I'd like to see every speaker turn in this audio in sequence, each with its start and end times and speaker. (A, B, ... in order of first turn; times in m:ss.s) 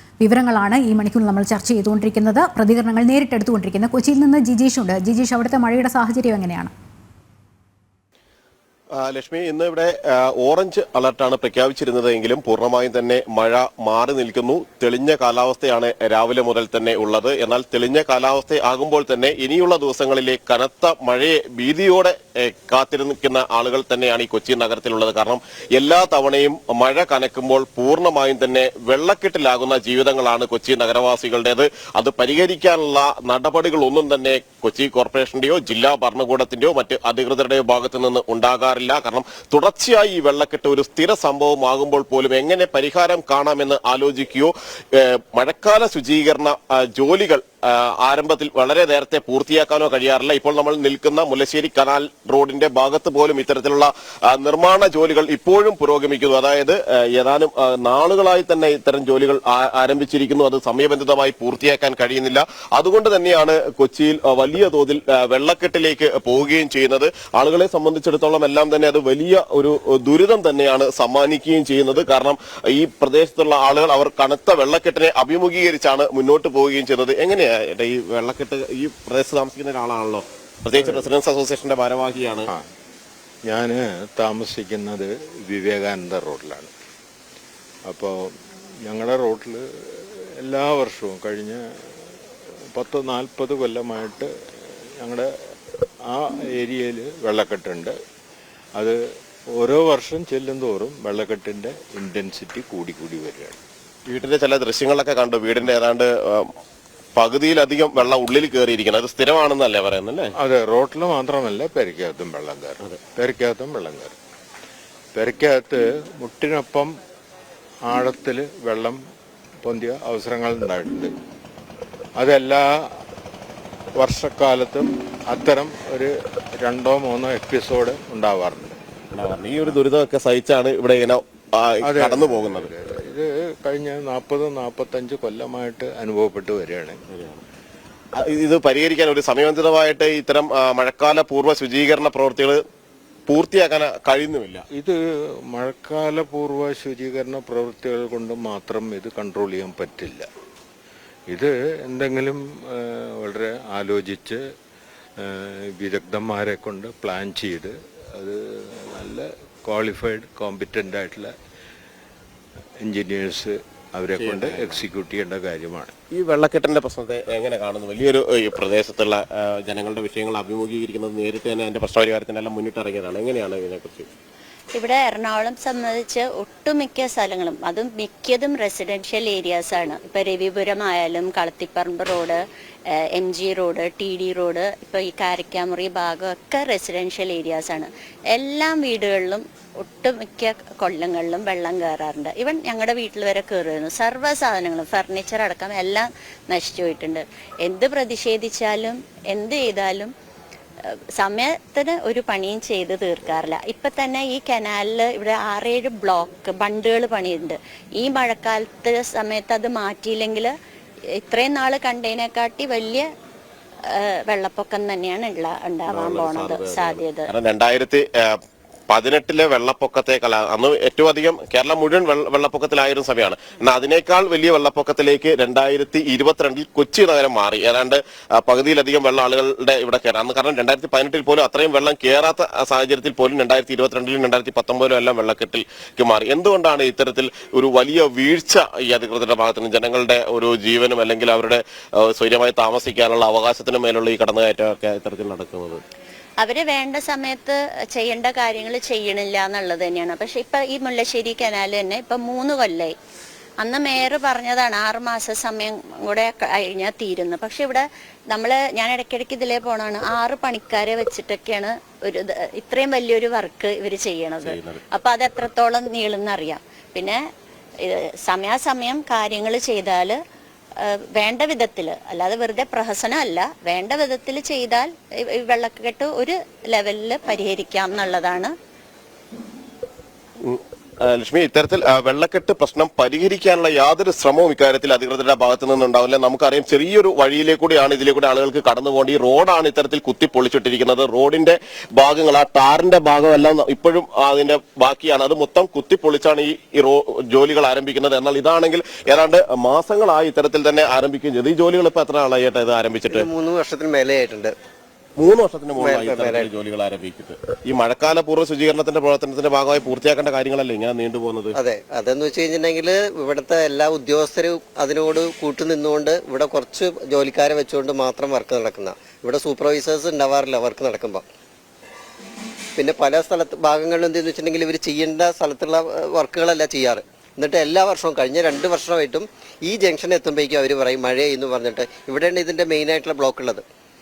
0:00.2-0:06.7 A
0:09.0-1:22.5 B
1:23.5-1:26.7 C
1:27.9-1:32.1 C
1:32.7-1:35.3 C
1:36.1-1:38.0 C
1:39.6-1:43.6 C
1:44.1-1:46.5 B
1:47.2-1:50.3 B
1:50.4-1:54.2 C
1:55.2-1:57.0 C
1:57.8-1:59.0 C
1:59.6-2:01.1 C
2:02.2-2:03.0 C
2:04.0-2:08.8 C
2:09.1-2:12.7 B
2:11.8-2:17.0 C
2:17.1-2:17.4 B
2:18.2-2:22.6 B
2:23.3-2:24.6 B
2:24.7-2:30.3 C
2:31.3-2:34.4 C
2:35.2-2:41.3 C
2:42.8-2:45.9 C
2:44.2-2:44.8 B
2:46.1-2:54.1 B
2:54.8-3:02.4 D
3:02.9-3:20.1 D
3:20.9-3:30.5 D
3:31.2-3:33.1 D
3:33.9-3:37.3 D
3:35.9-4:05.8 B
4:06.4-4:13.0 D
4:13.6-4:27.2 D
4:24.4-4:24.8 B
4:27.8-4:30.2 D
4:30.8-4:38.5 D
4:40.4-5:03.3 B
5:03.1-5:04.6 E
5:05.2-5:11.6 B
5:05.8-5:06.5 E
5:11.6-5:21.3 E
5:22.8-5:33.6 E